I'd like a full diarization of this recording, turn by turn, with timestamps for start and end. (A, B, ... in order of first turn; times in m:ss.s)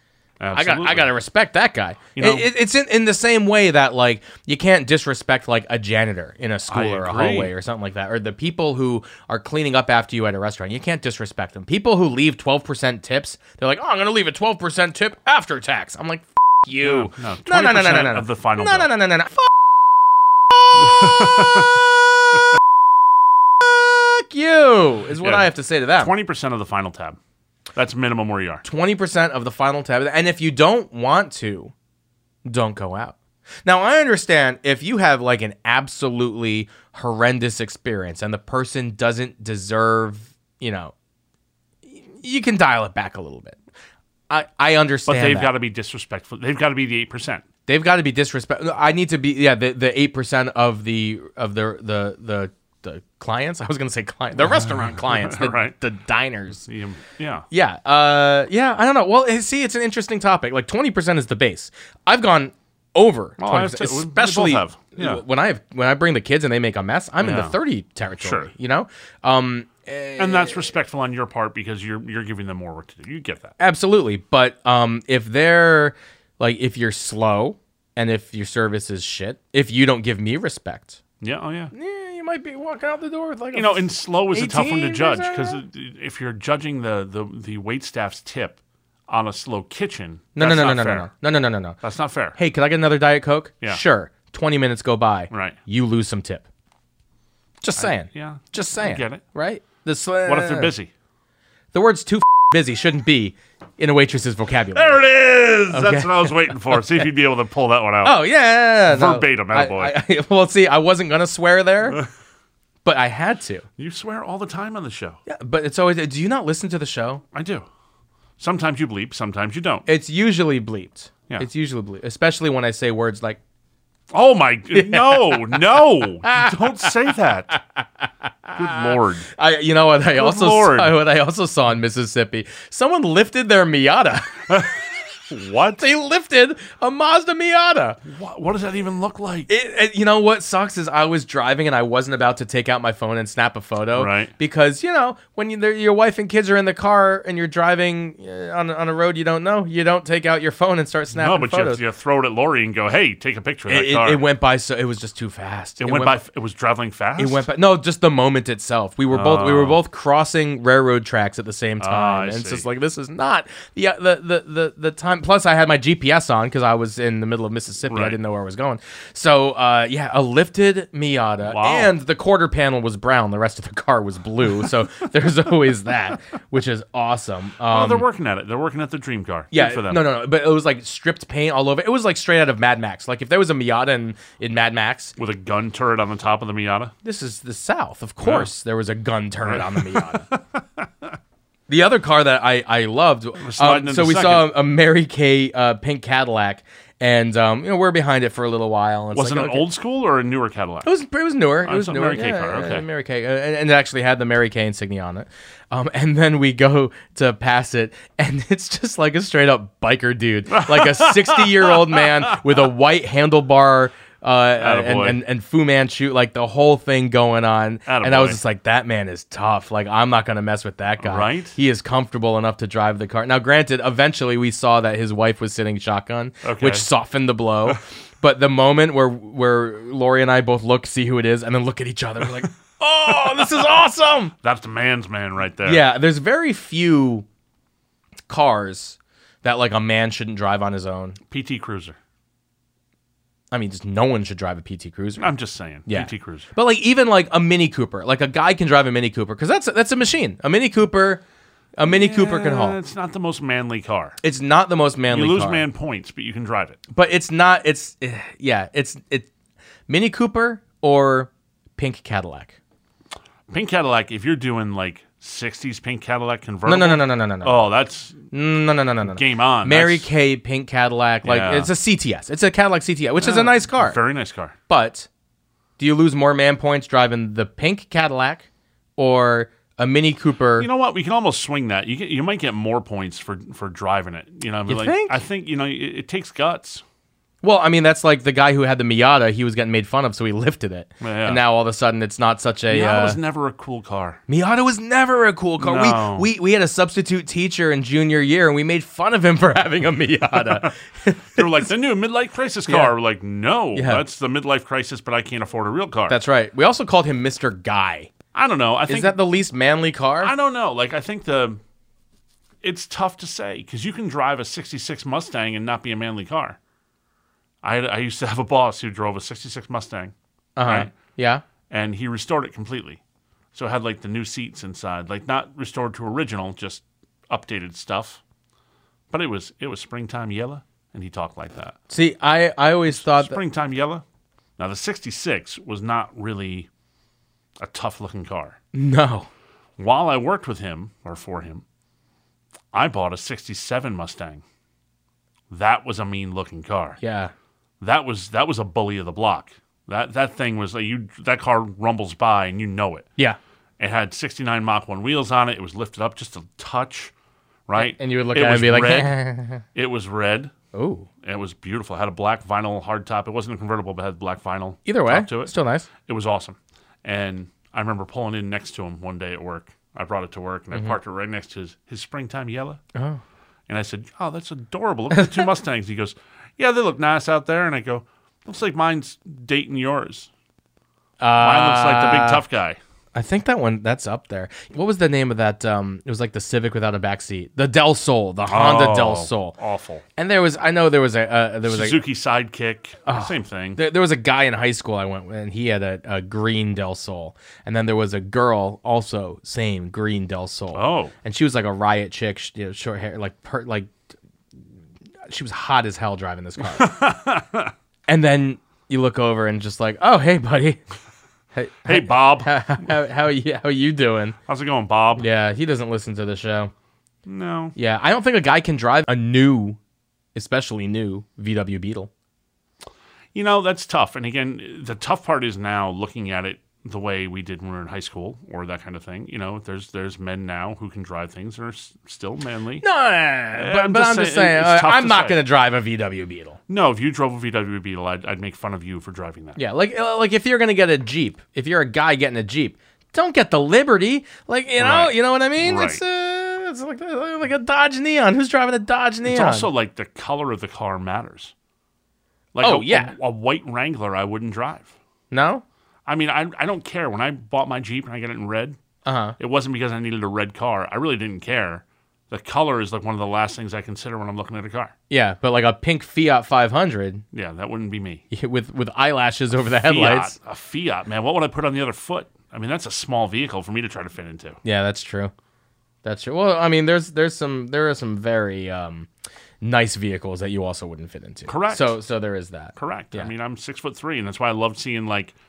0:00.4-0:01.1 A
0:00.5-0:19.5 B
0:02.2-0:02.5 A
0:06.7-0:07.5 A
0:16.8-0:18.9 A
0:20.8-0:21.7 A
0:20.8-0:21.6 B
0:23.6-0:26.1 B
0:25.2-0:27.2 A
0:27.7-0:28.6 A
0:28.6-0:31.7 B
0:32.4-0:40.9 B
0:41.8-0:43.6 B
0:44.3-0:45.5 B
0:45.0-0:47.4 A
0:47.7-0:56.6 B
0:54.5-0:55.7 A
0:56.6-0:57.4 A
0:57.5-1:10.7 B
1:03.4-1:05.2 A
1:07.2-1:07.5 A
1:08.2-1:08.5 A
1:10.2-1:13.5 A
1:13.6-1:21.0 B
1:21.2-1:21.7 A
1:21.7-1:25.6 B
1:23.5-1:31.1 A
1:30.4-1:31.8 B
1:31.8-1:32.4 A
1:32.4-1:36.4 B
1:35.3-1:35.6 A
1:37.6-1:40.7 B
1:37.8-1:39.2 A
1:40.2-1:40.9 A
1:41.7-1:45.0 B
1:44.7-1:48.2 A
1:45.7-1:46.8 B
1:48.0-1:52.0 B
1:48.8-1:50.0 A
1:52.8-1:53.6 B
1:53.8-1:55.2 A
1:55.3-1:57.2 B
1:57.3-1:57.6 A
1:58.4-1:59.8 A
1:59.8-2:03.4 B
2:04.1-2:07.6 A
2:04.7-2:06.9 B
2:07.8-2:14.7 B
2:08.5-2:09.3 A
2:10.1-2:10.9 A
2:15.3-2:15.8 A
2:15.7-2:18.0 B
2:18.0-2:19.5 A
2:19.5-2:31.8 B
2:23.9-2:24.3 A
2:31.1-2:34.2 A
2:33.7-2:36.2 B
2:35.8-2:37.4 A
2:37.2-2:58.0 B
2:39.1-2:39.8 A
2:41.8-2:42.6 A
2:47.9-2:48.2 A
2:51.4-2:51.9 A
2:57.7-3:00.0 A
2:59.5-3:05.1 B
3:05.2-3:06.9 A
3:07.0-3:10.2 B
3:08.2-3:08.5 A
3:09.4-3:11.2 A
3:11.7-3:19.6 B
3:13.4-3:14.5 A
3:19.1-3:20.9 A
3:20.8-3:54.3 B
3:21.6-3:22.8 A
3:30.5-3:32.4 A
3:34.6-3:35.2 A
3:37.8-3:38.4 A
3:41.0-3:41.6 A
3:46.4-3:46.8 A
3:54.4-3:55.8 A
3:55.6-3:57.2 B
3:58.3-4:01.2 B
4:01.3-4:02.0 A
4:03.5-4:05.3 B
4:05.2-4:06.5 A
4:05.8-4:11.2 B
4:11.8-4:12.8 B
4:11.8-4:14.2 A
4:14.2-4:15.6 B
4:15.1-4:16.8 A
4:16.9-4:19.3 B
4:19.9-4:22.6 B
4:23.5-4:28.3 A
4:26.6-4:27.7 B
4:28.3-4:34.0 B
4:29.0-4:30.1 A
4:31.2-4:31.7 A
4:33.2-4:34.6 A
4:34.7-4:35.1 B
4:35.8-4:40.7 B
4:40.6-4:46.8 A
4:44.7-4:45.2 B
4:47.4-4:53.2 B
4:51.0-4:51.4 A
4:52.7-4:54.2 A
4:54.3-5:01.7 B
4:55.6-4:56.3 A
5:00.3-5:00.7 A
5:01.3-5:06.2 A
5:02.7-5:02.9 B
5:03.7-5:04.0 B
5:06.1-5:08.1 B
5:08.3-5:09.2 A
5:08.9-5:10.3 B
5:10.2-5:11.6 A
5:12.6-5:16.6 A
5:17.6-5:20.9 A
5:20.6-5:21.4 B
5:21.7-5:23.0 A
5:23.5-5:28.2 A
5:29.1-5:31.8 A
5:31.9-5:33.4 B
5:32.9-5:34.0 A
5:34.6-5:36.7 A
5:37.6-5:38.6 A
5:38.7-5:39.3 B
5:39.8-5:41.6 A
5:42.7-5:44.4 A
5:45.5-5:47.0 A
5:47.0-5:47.3 B
5:47.8-5:53.1 A
5:53.8-5:57.1 A
5:57.7-5:59.2 A
5:57.8-5:59.6 B
5:59.7-6:00.5 A
6:00.7-6:01.1 B
6:01.2-6:12.8 A
6:04.8-6:05.9 B
6:12.9-6:13.2 B
6:13.7-6:20.3 A
6:21.2-6:22.4 B
6:21.4-6:22.8 A
6:23.1-6:29.6 B
6:28.5-6:30.0 A
6:30.2-6:32.0 B
6:31.6-6:33.8 A
6:33.0-6:43.9 B
6:40.7-6:41.1 A
6:45.2-6:47.0 B
6:46.6-6:47.7 A
6:48.1-6:50.8 B
6:51.5-6:54.4 B
6:51.8-6:52.9 A
6:54.5-6:55.3 A
6:55.2-6:56.7 B
6:57.2-6:57.7 A
6:57.8-6:59.8 B
7:00.3-7:02.1 B
7:03.3-7:12.8 A
7:12.8-7:16.6 B
7:13.6-7:15.4 A
7:16.7-7:19.6 A
7:19.6-7:29.7 B
7:24.8-7:26.0 A
7:29.2-7:31.5 A
7:32.5-7:34.9 A
7:32.6-7:33.1 B
7:35.3-7:35.6 B
7:36.0-7:38.8 A
7:39.0-7:39.4 B
7:39.4-7:44.9 A
7:45.1-7:47.2 B
7:47.3-7:48.2 A
7:48.3-7:50.3 B
7:49.7-7:54.6 A
7:54.6-7:55.3 B
7:56.0-7:59.1 B
7:59.6-8:03.3 B
8:01.5-8:02.0 A
8:02.8-8:05.3 A